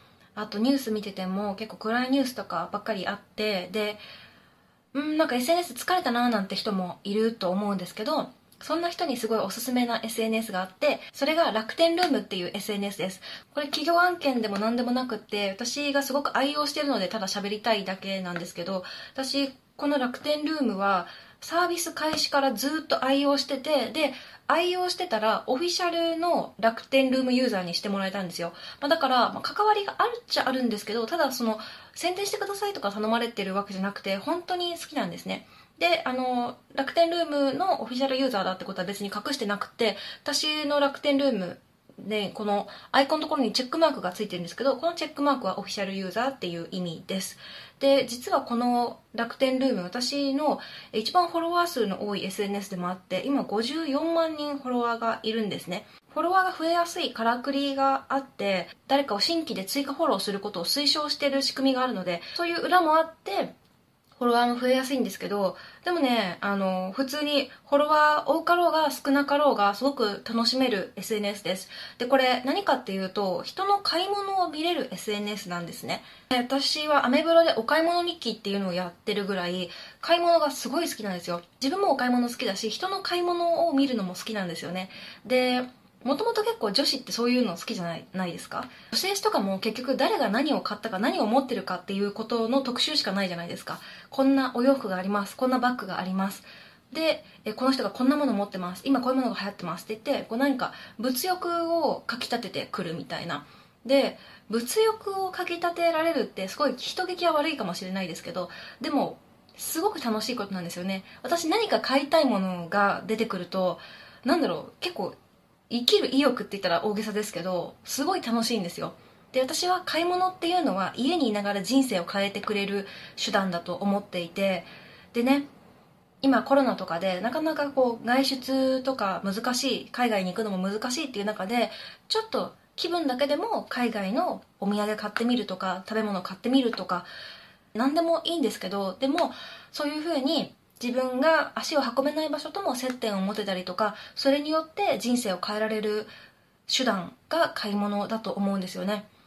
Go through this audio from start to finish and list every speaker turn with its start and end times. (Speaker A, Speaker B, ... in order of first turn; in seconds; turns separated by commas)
Speaker A: 0.3-4.0, Speaker A: 4.9-63.5, Speaker A: 64.2-115.2, Speaker A: 115.7-125.5, Speaker A: 126.2-137.1, Speaker A: 137.7-146.1, Speaker A: 146.7-149.1